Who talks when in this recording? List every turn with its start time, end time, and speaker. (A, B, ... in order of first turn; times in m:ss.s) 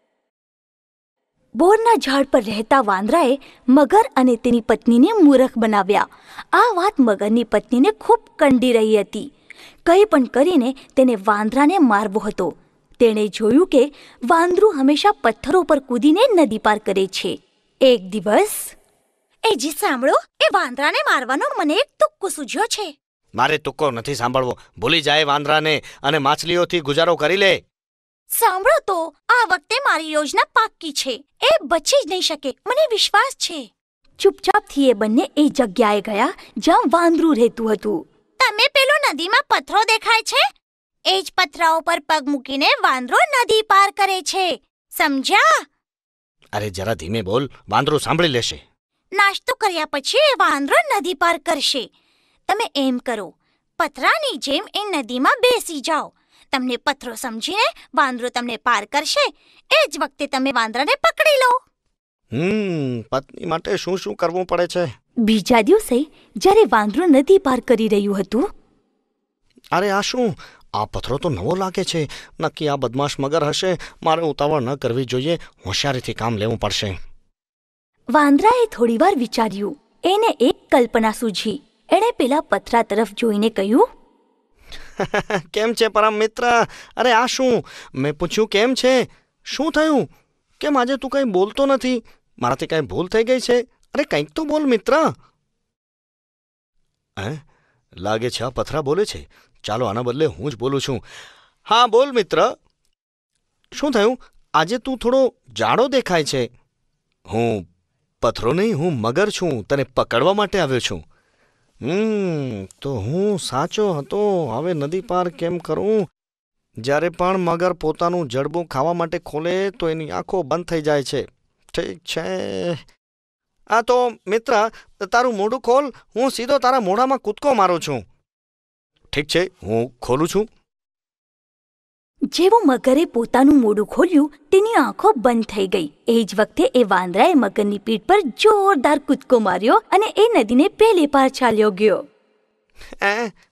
0:01.6-0:09.3 A
0:09.9-0:18.8 A
0:19.4-0:22.9 A
0:23.4-0:27.6 B
0:28.3-0:33.7 A
0:34.2-0:40.4 A
0:41.1-0:45.5 A
0:46.5-0:48.6 B
0:49.2-0:51.9 A
0:52.5-1:01.5 A
1:02.3-1:04.9 B
1:05.2-1:08.5 A
1:09.7-1:17.0 B
1:18.1-1:23.9 A
1:25.0-1:30.1 B
1:30.6-1:35.1 B
1:37.2-1:37.4 B
1:38.0-1:41.0 B
1:41.7-1:42.5 B
1:43.7-1:46.5 B
1:47.3-1:47.6 B
1:48.2-1:51.0 B
1:51.8-1:56.1 B
1:56.8-2:02.8 B
2:03.7-2:08.0 B
2:09.1-2:10.4 B
2:12.3-2:22.0 A
2:23.0-2:23.3 B